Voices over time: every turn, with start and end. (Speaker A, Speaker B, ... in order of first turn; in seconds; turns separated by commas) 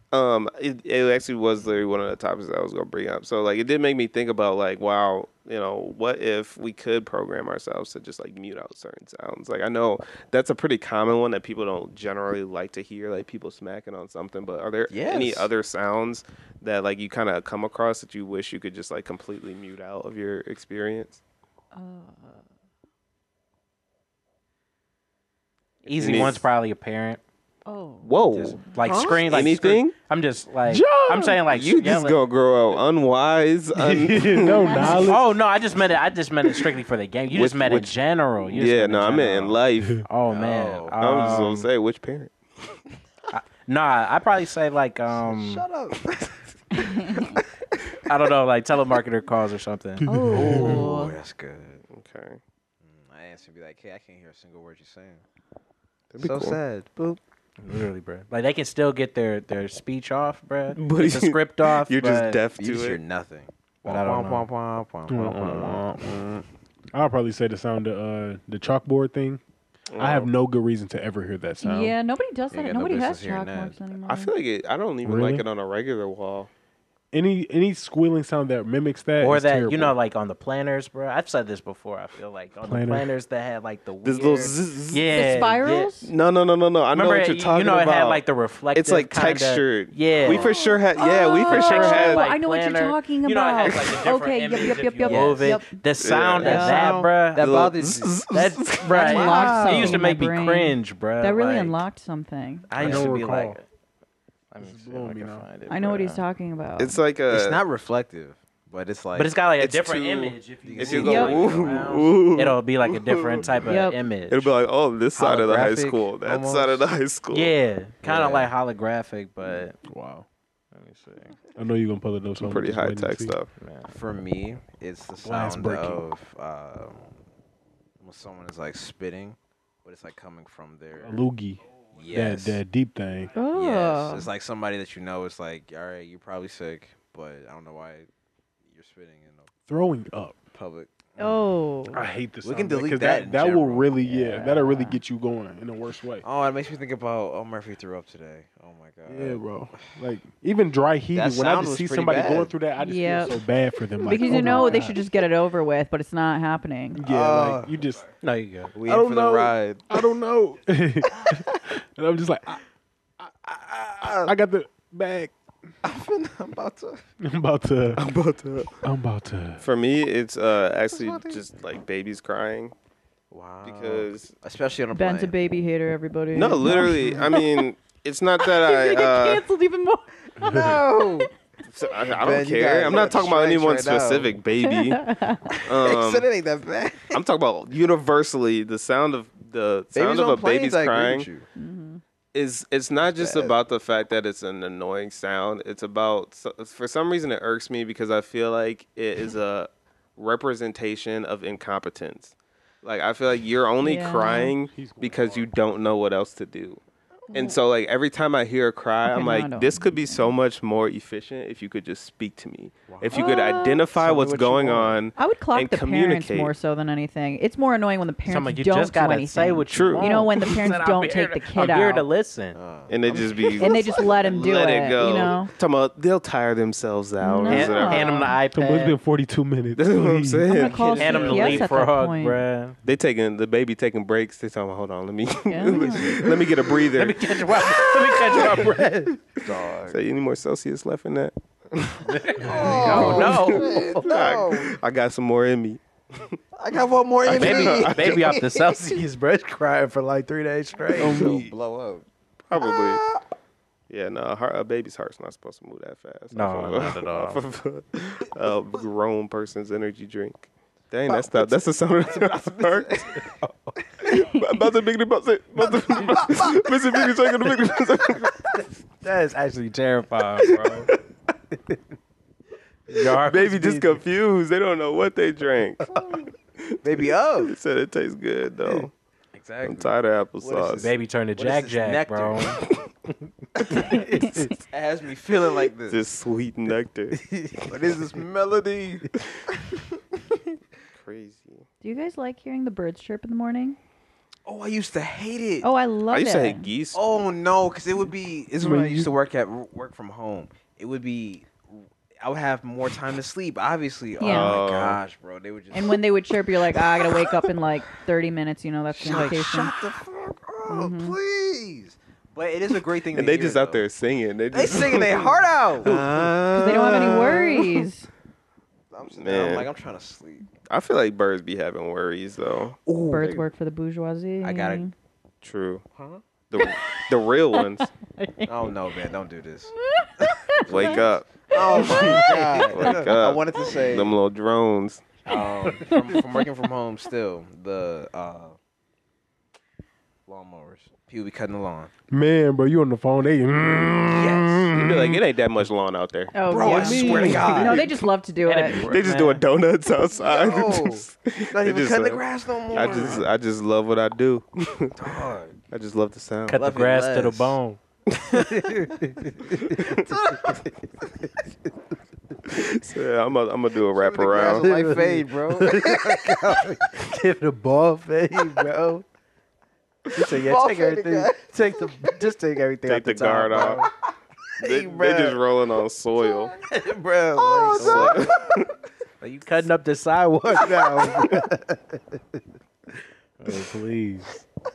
Speaker A: 0.1-21.2, Speaker B: 14.9-15.5, Speaker C: 21.7-22.4, Speaker D: 25.8-27.2, Speaker A: 25.9-26.5, Speaker C: 27.7-28.2, Speaker A: 28.0-29.9, Speaker D: 28.3-32.2, Speaker B: 28.8-29.4, Speaker E: 30.7-31.4, Speaker A: 31.5-34.9, Speaker E: 33.8-35.4, Speaker C: 34.6-35.0, Speaker D: 35.0-41.7, Speaker A: 37.3-40.0, Speaker B: 40.3-41.4, Speaker A: 41.0-42.3, Speaker D: 43.3-45.6, Speaker B: 45.1-48.0, Speaker C: 46.8-47.4, Speaker D: 48.1-50.1, Speaker E: 50.0-50.9, Speaker C: 50.0-51.2, Speaker B: 50.3-51.8, Speaker A: 51.9-52.4, Speaker B: 52.8-55.2, Speaker A: 56.1-56.6, Speaker B: 56.2-57.2, Speaker D: 57.6-62.5, Speaker A: 60.7-63.0, Speaker B: 62.6-65.9, Speaker D: 63.9-64.5, Speaker E: 65.1-69.4, Speaker A: 69.9-70.3, Speaker E: 70.0-72.0, Speaker C: 71.6-74.3, Speaker B: 72.5-73.8, Speaker A: 74.1-76.5, Speaker E: 75.0-75.5, Speaker E: 77.1-80.0, Speaker D: 79.2-85.9, Speaker E: 82.6-83.1, Speaker A: 84.0-85.1, Speaker C: 85.1-86.1, Speaker A: 86.0-92.3, Speaker D: 86.9-90.6, Speaker B: 90.3-90.6, Speaker C: 91.0-95.8, Speaker D: 91.3-97.7, Speaker B: 95.0-95.6, Speaker A: 96.0-99.2, Speaker B: 96.4-98.3, Speaker C: 96.4-97.0, Speaker D: 98.3-101.8, Speaker C: 98.8-102.7, Speaker B: 99.0-100.0, Speaker B: 102.7-103.6, Speaker D: 102.7-103.7, Speaker E: 102.8-103.6, Speaker D: 104.5-106.2, Speaker E: 104.6-105.5, Speaker C: 105.7-107.0, Speaker A: 106.8-107.6, Speaker B: 107.3-109.4, Speaker D: 109.2-114.5, Speaker A: 109.6-113.7, Speaker B: 110.6-111.9, Speaker C: 111.0-111.4, Speaker C: 113.7-114.0, Speaker A: 114.3-117.5, Speaker B: 115.2-116.9, Speaker D: 117.3-119.8, Speaker B: 118.0-118.6, Speaker E: 119.8-120.3, Speaker D: 120.7-121.4, Speaker E: 121.5-123.4, Speaker A: 122.4-123.5, Speaker D: 123.6-123.9, Speaker B: 123.9-127.1, Speaker E: 125.2-126.0, Speaker B: 128.0-131.3, Speaker E: 131.0-133.3, Speaker B: 131.9-132.6, Speaker C: 133.3-134.3, Speaker B: 133.5-138.1, Speaker B: 138.6-139.5, Speaker E: 139.7-140.5, Speaker B: 140.5-141.4, Speaker C: 141.2-142.0, Speaker E: 141.9-146.2, Speaker B: 142.4-144.6, Speaker C: 144.1-145.0, Speaker B: 146.2-149.9, Speaker E: 149.1-155.0, Speaker B: 151.1-152.5, Speaker C: 152.8-153.4, Speaker C: 154.0-157.0, Speaker B: 154.2-154.9, Speaker E: 156.9-158.1, Speaker B: 157.0-157.8, Speaker D: 158.2-158.8, Speaker B: 158.7-160.1, Speaker E: 158.8-162.6, Speaker B: 161.2-161.6, Speaker B: 163.5-164.3, Speaker E: 164.0-165.3, Speaker B: 165.8-167.0, Speaker E: 167.2-168.0, Speaker A: 168.0-168.8, Speaker E: 168.8-169.6, Speaker A: 169.6-172.8, Speaker B: 170.9-171.4, Speaker B: 173.3-175.3, Speaker A: 173.6-174.3, Speaker C: 174.9-177.7, Speaker A: 176.3-179.5, Speaker E: 176.7-177.3, Speaker C: 178.4-181.3, Speaker B: 180.3-181.3, Speaker A: 181.7-185.1, Speaker B: 182.1-184.3, Speaker C: 184.7-185.6, Speaker B: 185.6-187.2, Speaker A: 185.6-186.3, Speaker A: 187.1-191.3, Speaker B: 189.9-191.5, Speaker C: 191.6-192.0, Speaker A: 192.3-206.8, Speaker B: 193.0-193.6, Speaker C: 203.8-204.5, Speaker E: 204.4-205.5, Speaker A: 207.3-216.5, Speaker C: 209.1-210.3, Speaker D: 212.9-213.2, Speaker C: 213.1-213.8, Speaker D: 213.9-215.0, Speaker C: 215.2-222.1, Speaker D: 218.3-222.6, Speaker A: 219.7-220.1, Speaker B: 222.5-224.1, Speaker A: 222.9-228.2, Speaker C: 223.6-225.5, Speaker C: 227.2-228.4, Speaker D: 227.4-229.0, Speaker E: 228.5-230.5, Speaker A: 229.8-231.7, Speaker C: 230.5-232.4, Speaker D: 231.0-232.8, Speaker A: 232.8-238.7, Speaker C: 235.5-236.3, Speaker D: 236.9-239.2, Speaker B: 239.4-240.0, Speaker A: 239.8-246.4, Speaker D: 242.1-244.2, Speaker B: 242.4-244.7, Speaker B: 246.6-249.1, Speaker A: 247.2-248.4, Speaker D: 247.3-251.5, Speaker B: 250.9-252.1, Speaker A: 251.0-251.4, Speaker A: 252.5-253.0, Speaker B: 252.6-253.2, Speaker A: 253.9-263.1, Speaker D: 256.3-257.4, Speaker B: 261.1-263.2, Speaker D: 263.2-263.7, Speaker A: 264.0-268.6, Speaker B: 265.7-266.7, Speaker D: 269.0-270.9, Speaker A: 270.4-271.0, Speaker D: 271.5-271.8, Speaker D: 272.9-274.0, Speaker A: 273.2-278.9, Speaker B: 276.0-276.3, Speaker B: 276.8-277.5, Speaker B: 279.3-282.7, Speaker A: 279.6-280.9, Speaker D: 280.8-283.1, Speaker D: 283.7-284.5, Speaker B: 283.7-286.0, Speaker C: 284.0-284.5, Speaker A: 285.9-287.2, Speaker D: 287.3-287.7, Speaker B: 287.7-290.2, Speaker A: 290.9-291.7, Speaker C: 291.8-293.8, Speaker B: 294.4-295.7, Speaker C: 295.6-296.7, Speaker A: 296.1-297.0, Speaker B: 296.9-306.0, Speaker E: 298.6-299.1, Speaker C: 304.2-304.6, Speaker A: 304.2-305.0, Speaker C: 305.7-309.7, Speaker B: 306.6-307.5, Speaker B: 308.9-313.9, Speaker C: 310.7-311.2, Speaker A: 313.1-317.6, Speaker B: 314.5-317.8, Speaker C: 316.5-318.1, Speaker B: 318.9-320.5, Speaker A: 319.1-319.7, Speaker A: 320.7-322.8, Speaker B: 322.9-323.4, Speaker C: 323.1-324.9, Speaker B: 324.4-324.9, Speaker A: 325.4-325.8, Speaker B: 326.0-326.2, Speaker A: 326.5-327.9, Speaker C: 327.6-329.0, Speaker B: 328.5-329.7, Speaker C: 329.8-333.0, Speaker B: 330.6-334.1, Speaker A: 330.7-335.1, Speaker B: 335.3-338.6, Speaker C: 335.8-336.4, Speaker B: 340.3-341.9, Speaker E: 342.1-345.2, Speaker B: 344.1-344.7, Speaker A: 344.7-347.7, Speaker C: 346.3-348.9, Speaker B: 346.4-348.0, Speaker E: 346.7-347.8, Speaker D: 348.4-349.4, Speaker A: 348.8-355.2, Speaker B: 350.2-353.3, Speaker D: 352.8-353.2, Speaker B: 355.0-355.6, Speaker A: 355.7-356.6, Speaker D: 356.5-360.6, Speaker B: 356.6-357.6, Speaker A: 359.6-360.1, Speaker B: 359.9-361.1, Speaker A: 362.5-364.8, Speaker B: 363.9-366.9, Speaker D: 364.6-369.1, Speaker D: 370.1-373.9, Speaker B: 370.2-372.3, Speaker A: 372.9-373.9, Speaker B: 374.6-375.4, Speaker A: 374.6-376.6, Speaker B: 376.2-378.7, Speaker D: 377.3-378.3, Speaker A: 377.7-378.7, Speaker D: 379.2-382.2, Speaker B: 380.6-381.4, Speaker D: 383.4-384.4